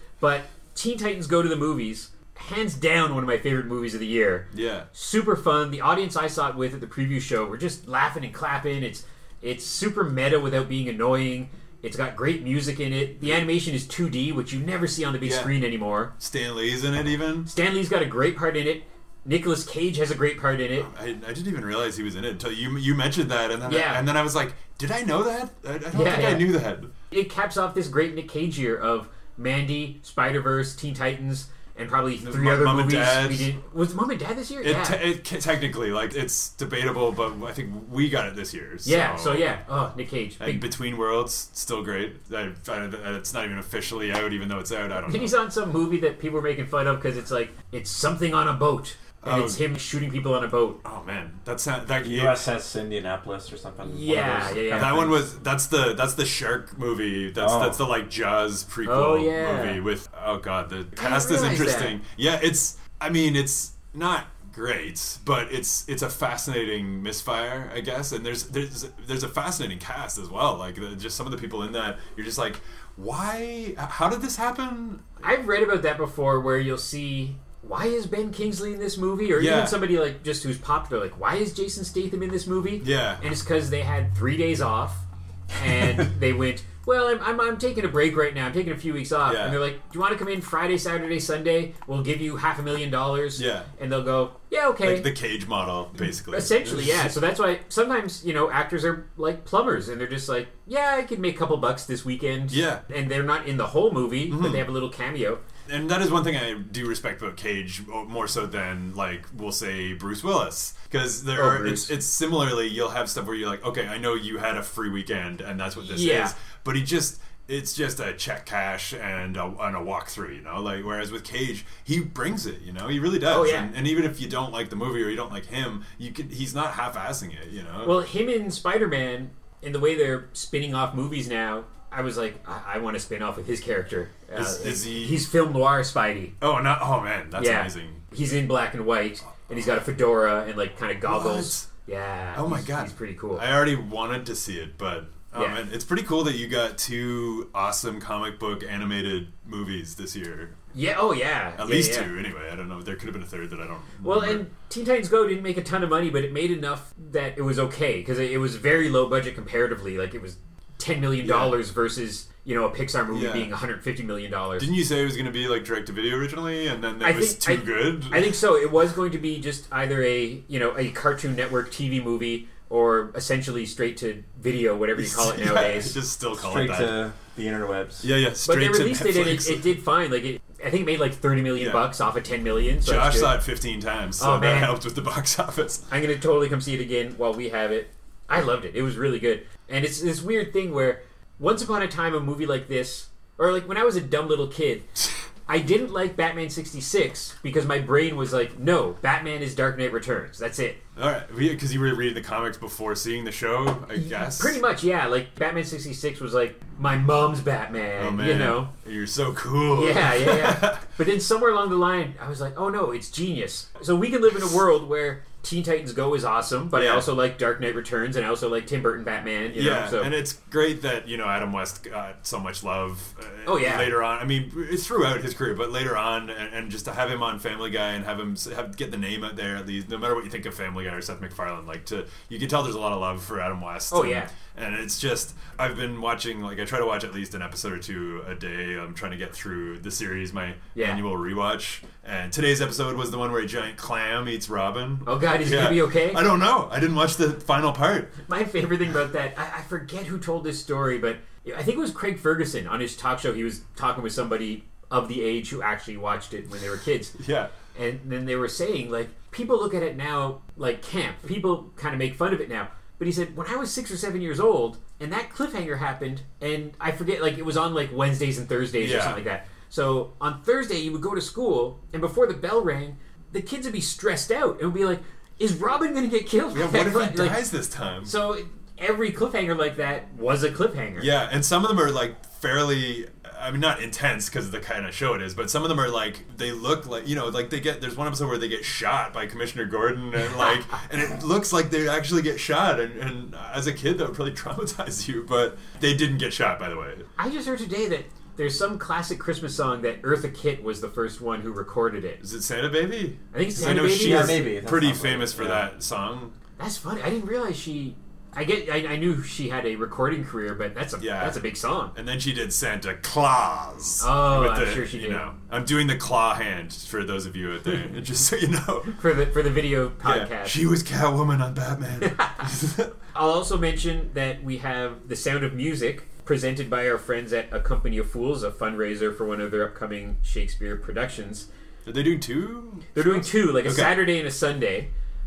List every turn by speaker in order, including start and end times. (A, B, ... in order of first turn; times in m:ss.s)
0:00.2-0:16.1 A
0:04.5-0:04.9 B
0:15.2-0:15.6 B
0:16.2-0:17.5 B
0:17.5-0:20.9 A
0:20.8-0:26.9 B
0:23.7-0:24.0 A
0:25.9-0:35.0 A
0:32.2-0:33.5 B
0:34.6-0:39.6 B
0:38.8-0:40.7 A
0:40.4-0:45.4 B
0:45.1-0:50.8 A
0:49.2-0:49.6 B
0:50.8-0:52.5 B
0:52.0-0:55.1 C
0:53.8-0:55.2 A
0:54.7-1:15.1 B
0:57.4-0:57.9 C
0:58.9-0:59.8 A
1:01.0-1:02.0 A
1:15.2-1:25.0 A
1:19.4-1:19.8 B
1:22.8-1:23.2 B
1:25.6-1:35.1 A
1:29.2-1:29.6 B
1:33.4-1:33.7 B
1:34.8-1:37.1 B
1:36.3-1:45.4 A
1:42.5-1:42.8 B
1:44.3-1:44.7 B
1:45.7-2:08.0 B
1:51.3-1:51.9 A
1:55.8-1:56.3 A
2:03.3-2:03.7 A
2:07.8-2:16.4 A
2:14.3-2:15.3 B
2:16.4-2:18.0 B
2:17.4-2:23.4 A
2:21.0-2:21.7 B
2:22.4-2:30.6 B
2:25.4-2:25.6 A
2:30.7-2:32.1 A
2:31.6-2:34.4 B
2:34.0-2:44.7 A
2:41.2-2:41.6 B
2:43.1-2:43.5 B
2:44.6-2:48.4 B
2:47.0-2:56.0 A
2:55.0-2:57.1 B
2:56.4-2:58.1 C
2:58.0-2:59.7 B
2:58.4-3:03.4 A
3:01.6-3:01.9 B
3:02.8-3:05.9 B
3:04.2-3:04.7 A
3:05.9-3:14.9 A
3:15.5-3:20.8 A
3:21.0-3:24.6 B
3:23.9-3:28.7 A
3:28.0-3:30.9 B
3:29.7-3:40.1 A
3:36.7-3:37.1 B
3:39.5-4:08.2 B
3:43.4-3:43.9 A
3:53.9-3:54.3 A
4:00.8-4:01.0 A
4:05.0-4:06.2 A
4:08.3-4:17.2 A
4:17.2-4:17.5 B
4:17.7-4:37.5 A
4:28.8-4:29.2 B
4:36.5-4:38.1 B
4:38.0-4:41.1 A
4:41.0-4:57.1 B
4:57.2-5:02.2 A
5:02.2-5:06.4 B
5:03.3-5:04.4 A
5:03.6-5:05.7 C
5:06.6-5:11.9 A
5:11.0-5:19.0 B
5:14.0-5:15.2 A
5:18.9-5:20.6 A
5:20.0-5:22.9 B
5:22.1-5:22.4 A
5:23.2-5:31.5 A
5:31.8-5:34.0 B
5:33.0-5:34.9 A